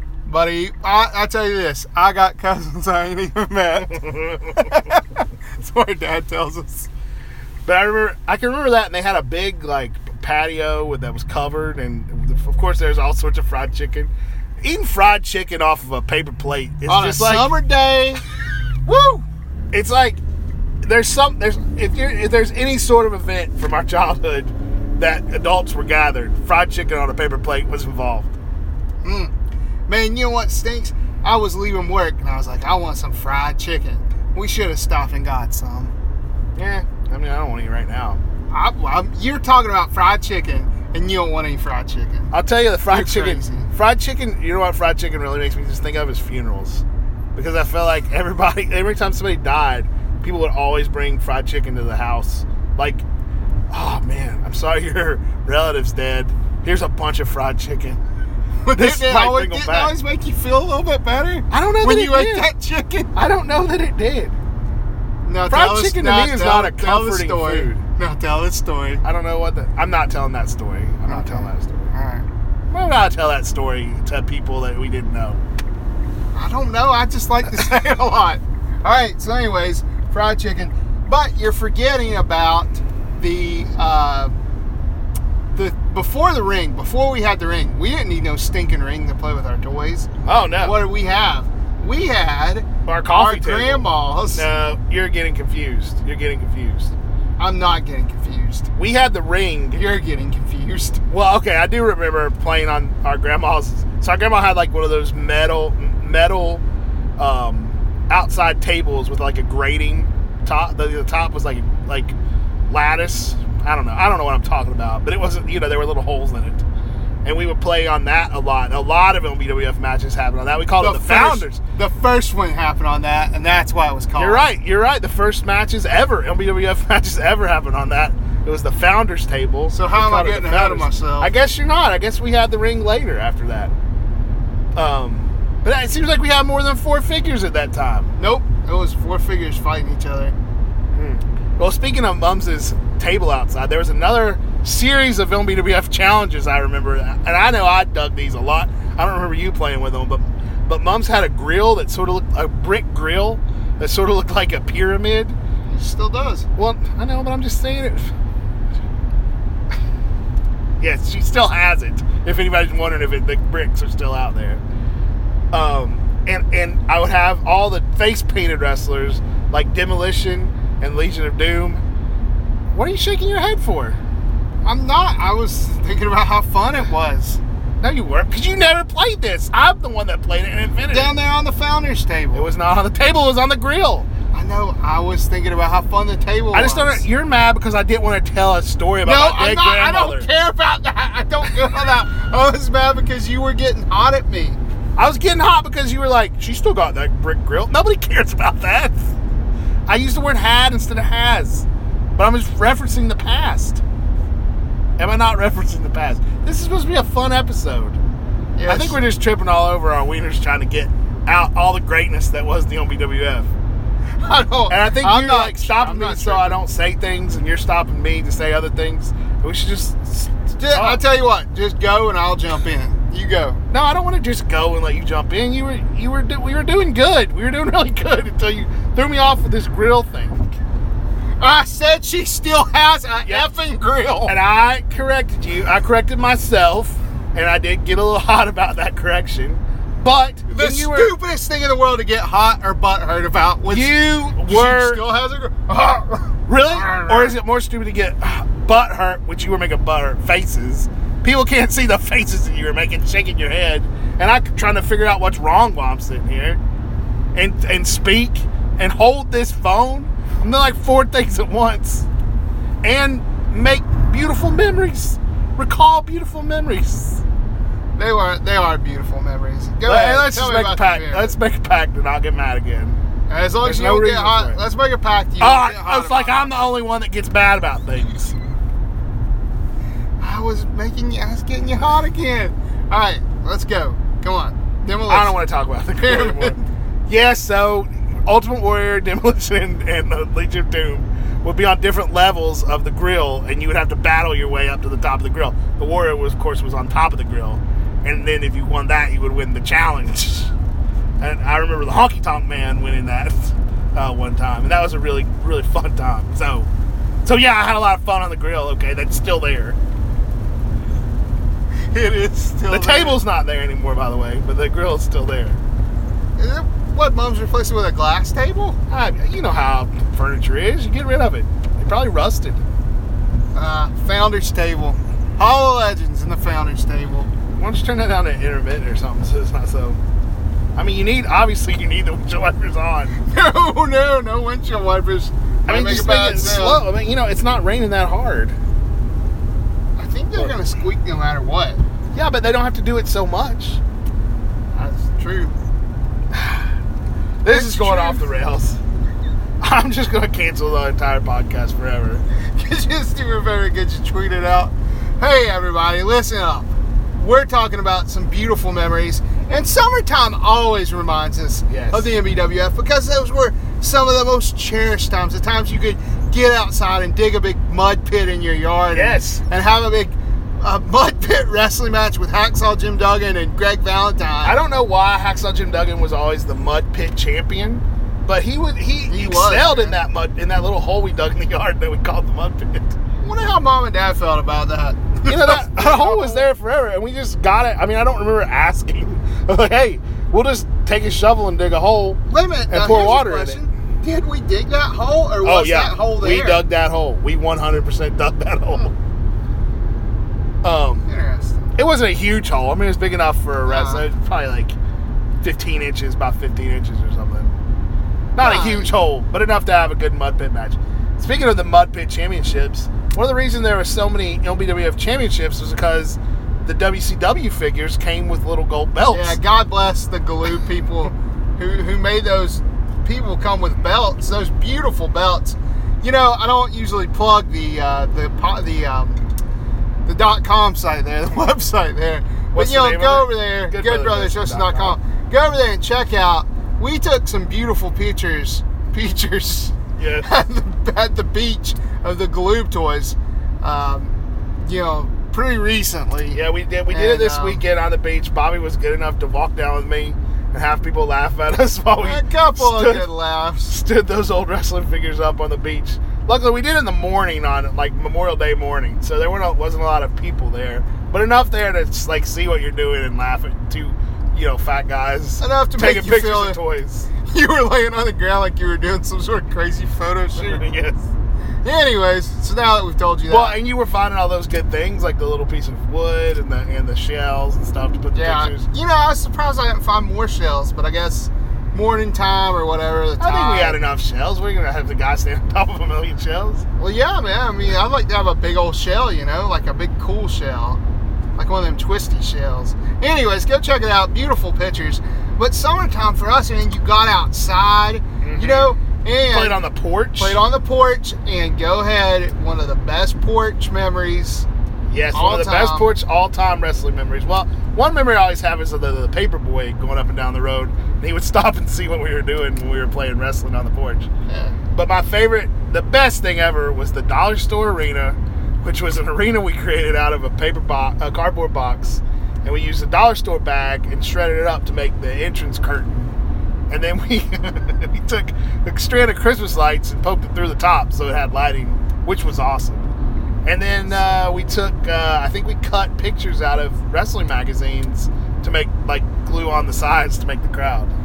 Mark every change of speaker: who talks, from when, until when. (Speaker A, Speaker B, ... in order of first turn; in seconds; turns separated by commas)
Speaker A: 0.3-6.9, Speaker B: 3.9-4.8, Speaker B: 7.7-17.5, Speaker A: 16.9-18.2, Speaker A: 18.9-19.2, Speaker B: 19.7-20.2, Speaker B: 20.8-28.3, Speaker A: 29.0-29.3, Speaker A: 29.9-35.9, Speaker B: 36.6-38.2, Speaker A: 38.5-42.3, Speaker B: 42.3-46.8, Speaker A: 42.9-43.7, Speaker B: 47.4-53.0, Speaker B: 53.7-58.0, Speaker A: 58.6-63.1, Speaker B: 58.8-60.0, Speaker B: 61.5-62.5, Speaker B: 63.1-64.3, Speaker A: 65.3-69.0, Speaker B: 65.5-67.8, Speaker B: 69.0-71.9, Speaker A: 71.1-72.3, Speaker B: 72.7-75.4, Speaker A: 76.3-84.4, Speaker A: 85.5-90.1, Speaker B: 90.2-90.8, Speaker A: 90.6-94.5, Speaker B: 92.9-96.9, Speaker A: 97.4-98.7, Speaker B: 98.8-99.8, Speaker A: 99.7-101.0, Speaker B: 101.1-106.6, Speaker B: 107.2-112.2, Speaker B: 112.7-116.6, Speaker B: 117.2-121.6, Speaker A: 120.8-124.5, Speaker B: 124.2-133.7, Speaker A: 129.7-131.3, Speaker B: 134.8-138.1, Speaker A: 138.2-140.3, Speaker B: 140.9-155.4, Speaker A: 155.7-156.5, Speaker B: 156.6-158.1, Speaker B: 160.8-164.6, Speaker B: 165.5-171.8, Speaker B: 172.7-174.0, Speaker A: 174.6-177.4, Speaker B: 177.8-181.2, Speaker A: 180.9-182.5, Speaker B: 182.3-184.1, Speaker A: 184.3-187.0, Speaker B: 186.5-190.3, Speaker A: 189.1-194.6, Speaker B: 195.0-199.1, Speaker B: 199.9-203.8, Speaker B: 205.0-208.0, Speaker A: 208.6-209.0, Speaker B: 208.7-213.5, Speaker A: 214.2-216.6, Speaker B: 214.7-221.0, Speaker A: 220.6-223.6, Speaker B: 223.7-230.5, Speaker A: 231.4-234.4, Speaker B: 233.3-233.5, Speaker B: 234.3-241.2, Speaker A: 240.5-247.4, Speaker B: 243.7-245.0, Speaker B: 246.5-256.6, Speaker B: 257.3-262.1, Speaker B: 262.8-267.2, Speaker A: 268.0-271.3, Speaker B: 269.8-273.0, Speaker A: 273.3-276.5, Speaker B: 273.6-274.6, Speaker B: 275.4-278.4, Speaker A: 280.2-285.4, Speaker B: 285.1-300.5, Speaker A: 286.0-286.7, Speaker B: 301.2-306.7, Speaker B: 307.2-309.8, Speaker A: 311.9-313.2, Speaker B: 312.7-315.6, Speaker A: 316.4-318.8, Speaker B: 318.9-322.6, Speaker A: 323.6-327.3, Speaker B: 327.6-330.0, Speaker B: 330.8-333.1, Speaker A: 333.2-336.8, Speaker B: 335.7-338.6, Speaker A: 340.0-341.8, Speaker B: 342.1-343.8, Speaker A: 344.7-345.6, Speaker B: 346.3-346.7, Speaker B: 347.4-348.8, Speaker A: 347.5-348.3, Speaker B: 349.6-352.2, Speaker A: 352.3-374.6, Speaker B: 361.7-362.1, Speaker B: 368.9-369.4, Speaker B: 374.4-383.0, Speaker A: 379.1-380.0, Speaker A: 383.2-386.5, Speaker B: 385.3-393.6, Speaker A: 392.3-396.6, Speaker B: 395.4-398.9, Speaker B: 400.6-401.1, Speaker A: 401.1-401.7, Speaker B: 401.8-404.8, Speaker A: 403.7-404.0, Speaker B: 405.4-407.5, Speaker B: 408.4-419.4, Speaker A: 408.4-408.9, Speaker A: 419.1-429.2, Speaker A: 430.1-447.6, Speaker B: 432.5-435.0, Speaker B: 440.0-440.3, Speaker B: 446.3-453.1, Speaker A: 452.0-453.8, Speaker B: 453.7-467.1, Speaker A: 465.4-466.6, Speaker A: 467.2-470.7, Speaker B: 470.4-471.1, Speaker A: 471.6-473.6, Speaker B: 473.3-478.7, Speaker A: 478.1-483.8, Speaker B: 483.2-486.6, Speaker A: 486.8-490.8, Speaker A: 491.4-499.6, Speaker B: 498.2-498.8, Speaker B: 499.3-500.4, Speaker A: 500.2-504.5, Speaker B: 504.9-514.1, Speaker A: 505.1-505.9, Speaker A: 514.3-514.6, Speaker B: 514.7-526.1, Speaker B: 526.7-532.9, Speaker B: 533.4-540.9